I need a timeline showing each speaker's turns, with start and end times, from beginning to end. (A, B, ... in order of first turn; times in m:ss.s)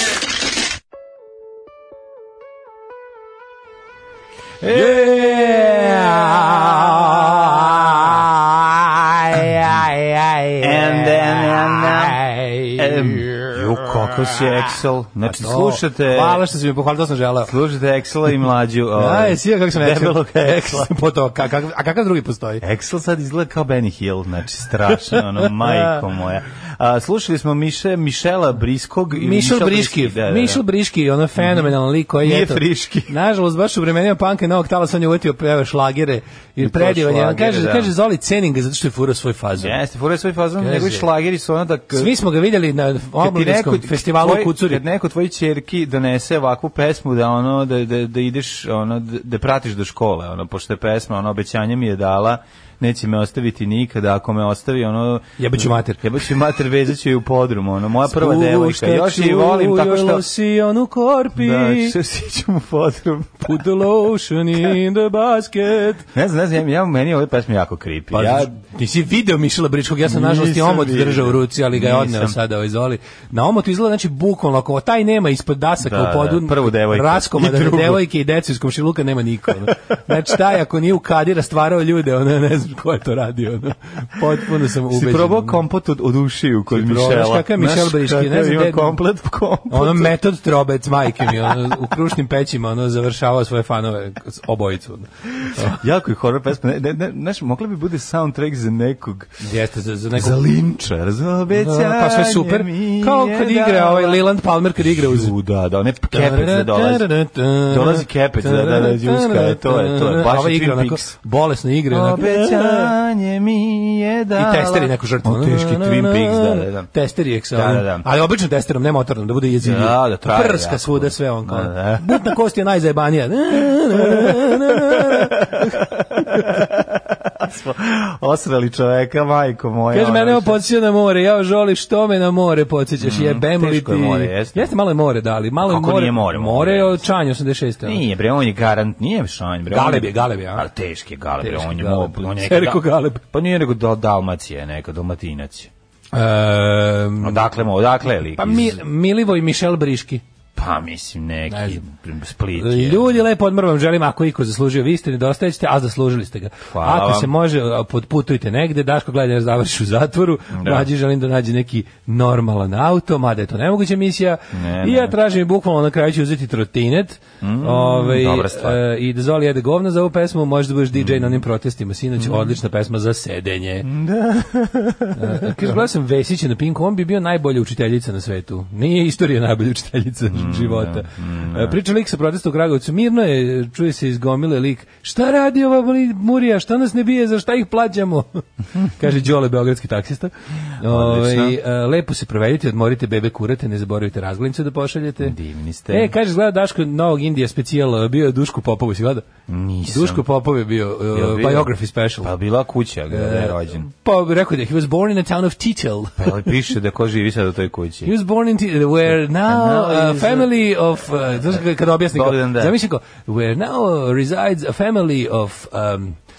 0:04.6-0:07.6 A
0:04.7-0:14.6 B
0:10.6-0:12.2 A
0:12.7-0:16.4 A
0:15.2-0:17.5 B
0:17.4-0:21.0 A
0:19.0-0:22.6 B
0:22.6-0:30.6 A
0:25.1-0:26.0 B
0:29.1-0:39.8 B
0:31.4-0:33.1 A
0:36.6-0:37.9 A
0:39.6-0:42.1 A
0:40.6-0:41.1 B
0:41.9-0:44.8 B
0:43.2-1:00.2 A
0:55.4-0:56.0 B
0:58.1-1:02.0 B
1:01.3-1:03.6 A
1:03.4-1:06.1 B
1:06.1-1:08.5 A
1:08.1-1:25.6 B
1:10.0-1:12.3 A
1:15.8-1:18.0 A
1:24.9-1:30.1 A
1:26.7-1:29.0 B
1:29.7-1:35.8 B
1:31.3-1:31.6 A
1:35.5-1:39.4 A
1:39.4-1:40.4 B
1:40.1-1:44.2 A
1:41.5-1:45.3 B
1:44.8-1:47.1 A
1:46.1-1:52.9 B
1:47.7-1:51.1 A
1:51.9-1:56.9 A
1:54.3-2:06.6 B
1:57.5-1:58.0 A
1:59.6-2:02.3 A
2:04.0-2:10.6 A
2:09.9-2:18.0 B
2:13.0-2:14.7 A
2:15.6-2:17.0 A
2:17.8-2:25.7 A
2:19.7-2:20.7 B
2:21.4-2:23.2 B
2:26.1-2:27.4 B
2:27.2-2:28.8 A
2:28.3-2:30.2 B
2:30.6-2:33.2 A
2:31.5-2:31.8 B
2:32.6-2:53.9 B
2:36.7-2:37.3 A
2:40.5-2:40.9 A
2:44.5-2:45.1 A
2:47.4-2:48.8 A
2:50.9-2:51.4 A
2:52.2-2:52.6 A
2:53.8-2:55.7 A
2:55.1-3:15.3 B
3:00.2-3:01.8 A
3:10.8-3:11.6 A
3:15.2-3:16.1 A
3:15.9-3:19.3 B
3:19.5-3:20.2 A
3:19.9-3:22.3 B
3:21.1-3:23.9 A
3:23.1-3:26.4 B
3:26.2-3:28.1 A
3:28.0-3:36.2 B
3:29.0-3:30.5 A
3:31.5-3:32.7 A